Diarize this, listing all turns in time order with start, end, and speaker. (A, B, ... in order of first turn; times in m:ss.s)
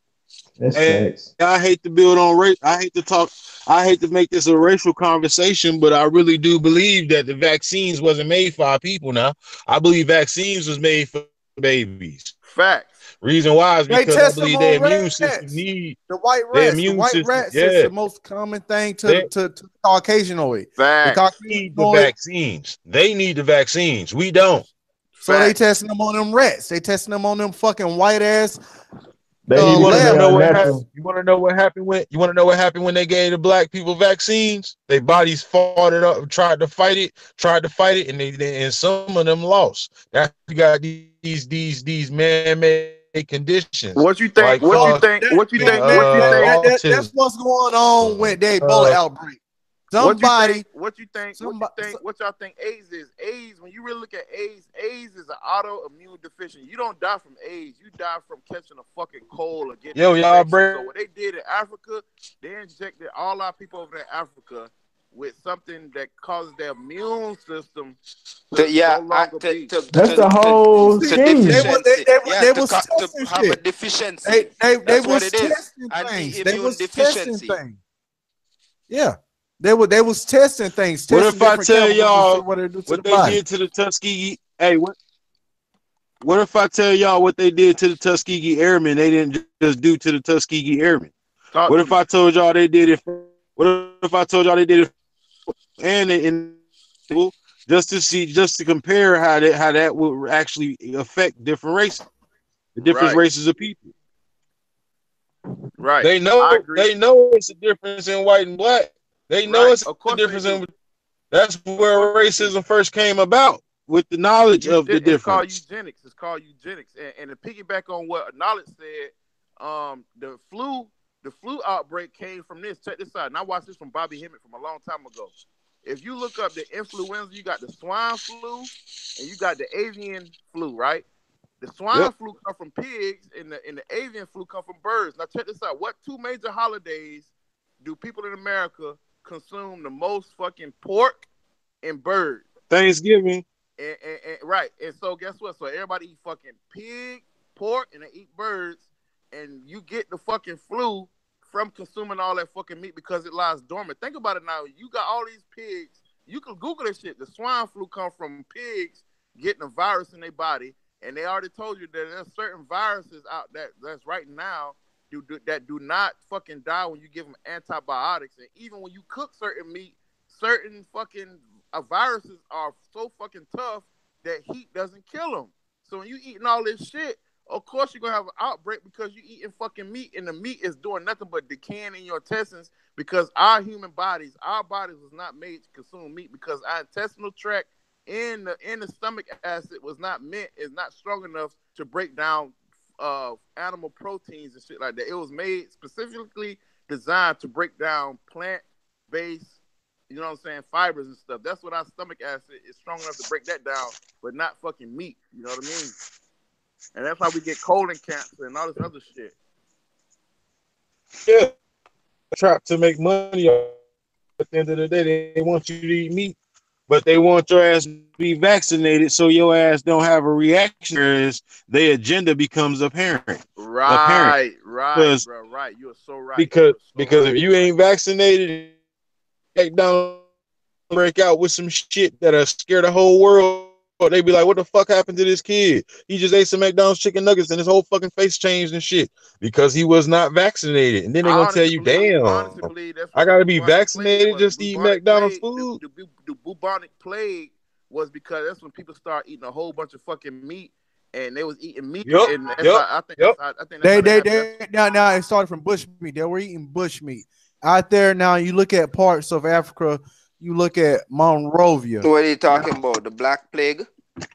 0:00.6-0:01.3 A
0:00.7-0:12.3 B
0:12.4-0:12.9 C
0:13.2-0:16.0 B
0:13.9-0:22.1 D
0:16.5-0:17.9 B
0:20.8-0:21.2 C
0:21.4-0:24.7 B
0:25.2-0:28.6 D
0:25.2-0:25.5 C
0:29.5-0:30.8 A
0:29.5-0:30.6 D
0:29.6-0:47.1 B
0:43.9-0:46.6 C
0:44.6-0:49.4 D
0:48.0-0:49.0 B
0:49.9-0:50.6 D
0:50.0-1:08.0 C
0:51.4-0:52.0 D
0:59.9-1:00.9 B
1:08.5-1:09.8 C
1:08.5-1:17.6 E
1:09.9-1:11.7 A
1:10.8-1:13.6 D
1:14.2-1:17.8 D
1:18.9-1:23.4 D
1:21.1-1:25.0 B
1:26.2-1:31.1 B
1:31.5-1:32.0 C
1:31.7-1:34.9 B
1:35.5-1:36.6 B
1:37.1-1:42.0 B
1:42.8-1:43.9 B
1:42.8-1:43.2 C
1:45.8-1:46.9 C
1:46.0-1:50.7 B
1:49.4-1:50.6 C
1:51.3-1:55.6 B
1:51.9-1:52.5 C
1:54.6-2:05.3 C
2:05.8-2:11.0 C
2:11.6-2:17.3 C
2:17.8-2:21.2 C
2:21.8-2:22.4 C
2:22.7-2:23.4 B
2:23.8-3:19.6 C
3:20.1-3:26.0 C
3:26.9-3:29.3 C
3:31.2-3:31.5 B
3:32.3-3:33.8 B
3:34.4-3:36.3 B
3:36.9-3:44.4 B
3:43.6-3:47.7 C
3:44.9-3:45.2 B
3:46.4-3:48.7 B
3:49.5-3:50.2 B
3:50.9-4:05.8 B
4:01.2-4:14.6 C
4:12.0-4:13.4 B
4:13.8-4:22.8 D
4:22.0-4:23.9 E